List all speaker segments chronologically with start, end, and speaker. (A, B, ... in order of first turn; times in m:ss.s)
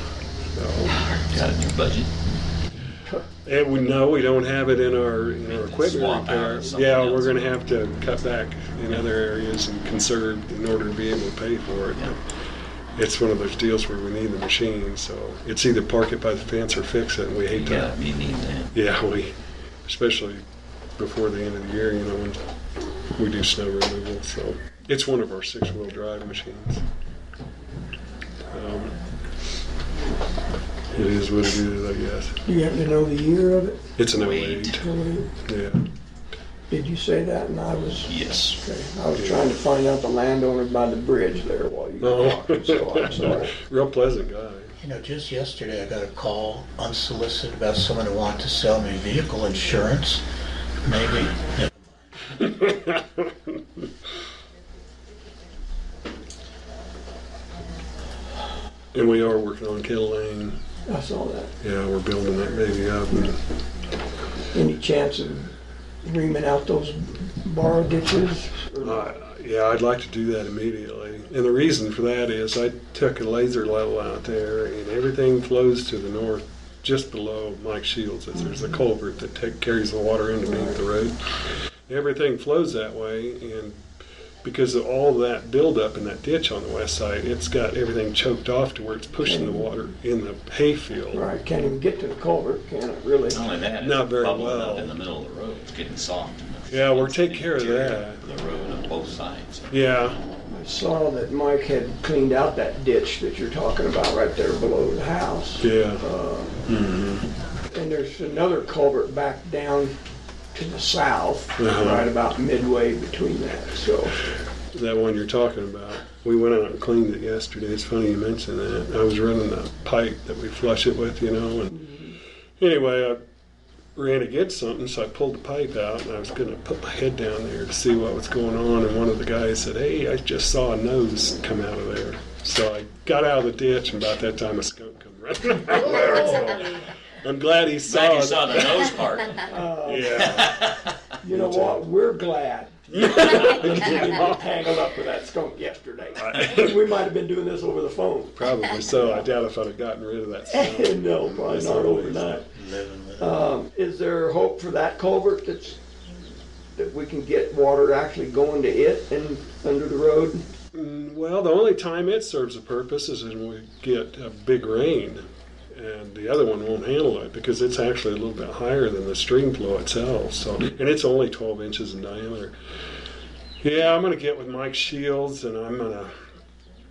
0:00.5-0:01.0 A
0:01.2-0:02.1 B
0:03.4-0:12.2 A
0:05.5-0:07.3 B
0:13.0-0:17.9 A
0:17.5-0:18.7 B
0:18.7-0:20.4 A
0:21.0-0:22.4 A
0:23.2-0:26.8 A
0:28.5-0:29.0 A
0:30.9-0:32.4 A
0:32.4-0:33.9 C
0:34.0-0:34.8 A
0:34.2-0:34.8 B
0:34.7-0:35.3 C
0:35.4-0:35.8 A
0:36.7-0:43.5 C
0:38.1-0:38.6 B
0:39.2-0:39.5 A
0:42.0-0:44.7 A
0:44.8-0:50.2 D
0:50.8-0:51.7 D
0:52.3-0:53.3 A
0:58.9-1:00.6 A
1:00.8-1:01.5 C
1:01.6-1:03.4 A
1:04.5-1:09.1 C
1:08.8-1:21.2 A
1:20.5-1:20.8 C
1:21.9-1:23.8 A
1:24.4-1:31.2 A
1:29.2-1:29.7 C
1:31.1-1:33.4 C
1:33.3-1:39.7 B
1:33.8-1:35.0 A
1:36.7-1:38.2 A
1:39.7-1:40.2 A
1:40.5-1:46.6 C
1:45.6-1:46.0 A
1:46.6-1:47.2 A
1:47.7-1:49.9 C
1:50.5-1:54.2 C
1:51.6-1:52.1 A
1:54.7-2:01.8 A
2:01.7-2:02.2 C
2:02.6-2:03.2 A
2:04.0-2:18.9 A
2:15.9-2:16.8 C
2:17.8-2:19.5 B
2:19.4-2:20.5 C
2:19.8-2:21.8 A
2:20.4-2:21.0 B
2:21.2-2:29.2 C
2:22.9-2:24.4 A
2:26.2-2:26.8 A
2:28.4-2:32.4 A
2:30.5-2:32.4 C
2:32.5-2:33.3 D
2:33.2-2:35.8 C
2:36.8-2:40.4 C
2:40.7-2:52.5 A
2:53.6-2:56.1 A